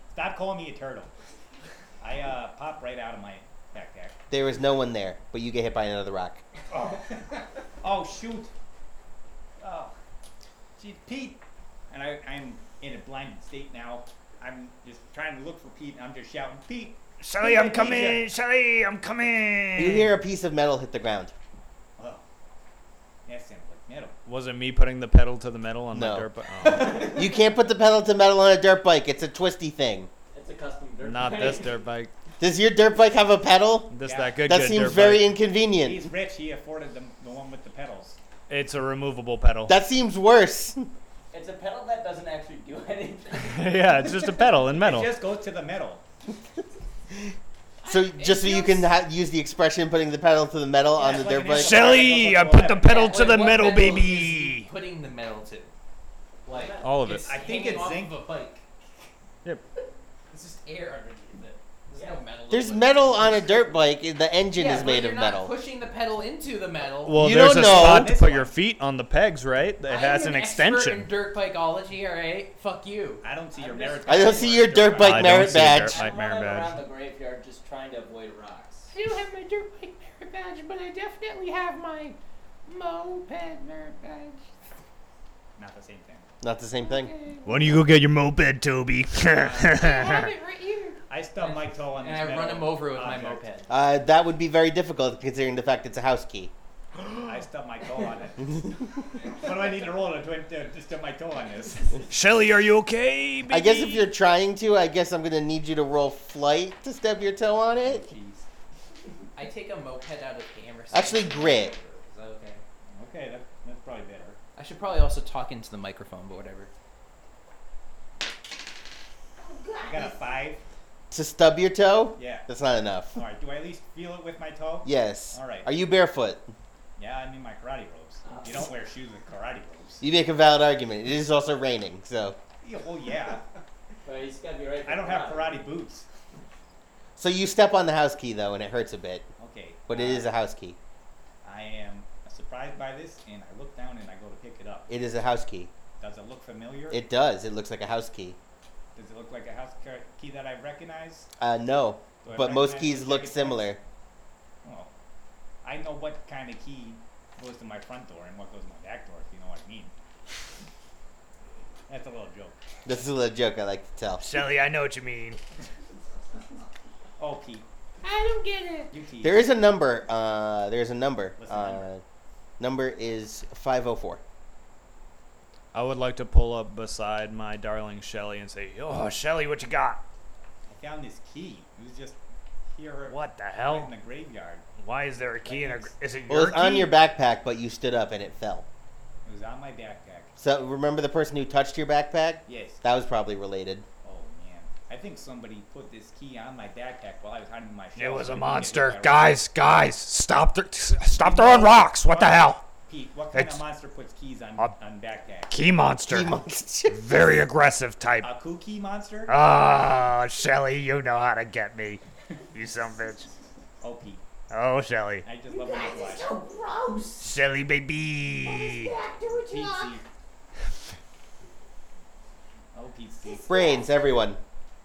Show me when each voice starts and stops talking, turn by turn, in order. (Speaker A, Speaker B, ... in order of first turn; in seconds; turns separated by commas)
Speaker A: 0.1-1.1, Speaker A: 2.0-4.2, Speaker B: 4.3-6.4, Speaker A: 6.7-8.5, Speaker A: 9.6-9.9, Speaker A: 10.8-18.2, Speaker C: 17.2-20.1, Speaker B: 19.8-21.3, Speaker A: 22.0-22.2, Speaker A: 23.3-24.2, Speaker C: 24.3-27.2, Speaker B: 25.9-26.3, Speaker B: 26.9-30.1, Speaker D: 30.3-31.8, Speaker C: 31.0-32.1, Speaker B: 32.4-33.9, Speaker C: 33.9-35.3, Speaker A: 34.0-34.5, Speaker B: 34.5-36.1, Speaker A: 35.8-38.2, Speaker C: 38.5-39.8, Speaker B: 39.7-40.9, Speaker D: 41.3-44.3, Speaker C: 43.4-45.1, Speaker A: 44.7-46.0, Speaker E: 47.8-48.8, Speaker B: 47.9-52.0, Speaker A: 50.9-53.2, Speaker C: 51.5-54.7, Speaker E: 52.8-55.7, Speaker D: 56.5-57.2, Speaker E: 56.5-58.6, Speaker C: 56.8-57.3, Speaker A: 57.1-58.2, Speaker E: 60.3-63.8, Speaker D: 61.9-62.2, Speaker B: 62.5-65.5, Speaker E: 64.5-67.3, Speaker C: 67.0-71.1, Speaker B: 67.1-68.2, Speaker A: 67.5-68.5, Speaker E: 69.9-73.3, Speaker A: 73.2-75.8, Speaker D: 73.5-74.8, Speaker B: 74.1-76.0, Speaker C: 75.0-76.8, Speaker D: 75.8-78.9, Speaker F: 78.9-84.5, Speaker A: 85.6-86.3, Speaker B: 86.4-87.1, Speaker F: 86.8-87.9, Speaker C: 87.5-90.3, Speaker F: 89.7-91.0, Speaker A: 91.1-93.5, Speaker E: 91.4-93.7, Speaker B: 93.7-96.5, Speaker A: 97.2-98.8, Speaker A: 99.3-102.1, Speaker C: 102.1-104.1, Speaker B: 103.5-108.1, Speaker A: 107.8-108.5, Speaker E: 109.3-112.6, Speaker B: 110.9-111.7, Speaker A: 112.9-114.4, Speaker E: 114.6-116.7, Speaker G: 119.4-120.4, Speaker A: 119.8-120.6, Speaker B: 121.1-123.2, Speaker A: 122.2-122.5, Speaker A: 123.1-125.7, Speaker B: 124.8-126.5, Speaker A: 127.0-130.0, Speaker D: 128.2-128.7, Speaker B: 130.0-132.4, Speaker A: 132.6-133.4, Speaker D: 134.1-135.7, Speaker A: 134.8-136.1, Speaker B: 137.2-139.3, Speaker A: 139.4-140.3, Speaker B: 139.9-140.8, Speaker A: 141.4-144.9, Speaker B: 144.9-145.7, Speaker A: 146.0-147.0, Speaker B: 146.9-148.4, Speaker A: 148.9-151.3, Speaker B: 151.4-153.8, Speaker A: 152.2-153.8, Speaker A: 154.6-154.9, Speaker A: 155.6-159.9, Speaker A: 161.9-162.6, Speaker B: 162.8-164.3, Speaker C: 164.2-165.4, Speaker A: 167.2-167.7, Speaker F: 168.0-168.9, Speaker A: 168.9-169.4, Speaker B: 169.2-172.0, Speaker A: 171.4-171.9, Speaker B: 172.6-174.2, Speaker C: 175.7-180.0, Speaker A: 180.7-182.2, Speaker A: 182.7-184.7, Speaker C: 183.1-183.9, Speaker C: 184.8-186.9, Speaker A: 185.4-185.9, Speaker B: 186.3-188.7, Speaker A: 189.2-190.3, Speaker B: 190.4-193.9, Speaker A: 192.5-192.8, Speaker A: 194.0-199.4, Speaker C: 198.0-202.6, Speaker A: 201.2-205.6, Speaker C: 203.3-203.6, Speaker C: 205.5-208.3, Speaker B: 206.1-207.3, Speaker A: 208.2-209.4, Speaker C: 209.3-213.3, Speaker A: 213.8-214.2, Speaker C: 214.5-215.3, Speaker A: 215.2-216.4, Speaker G: 215.4-217.4, Speaker C: 217.2-218.9, Speaker G: 218.4-220.0, Speaker A: 219.2-220.0, Speaker A: 222.7-223.5, Speaker G: 223.2-224.2, Speaker B: 223.5-224.4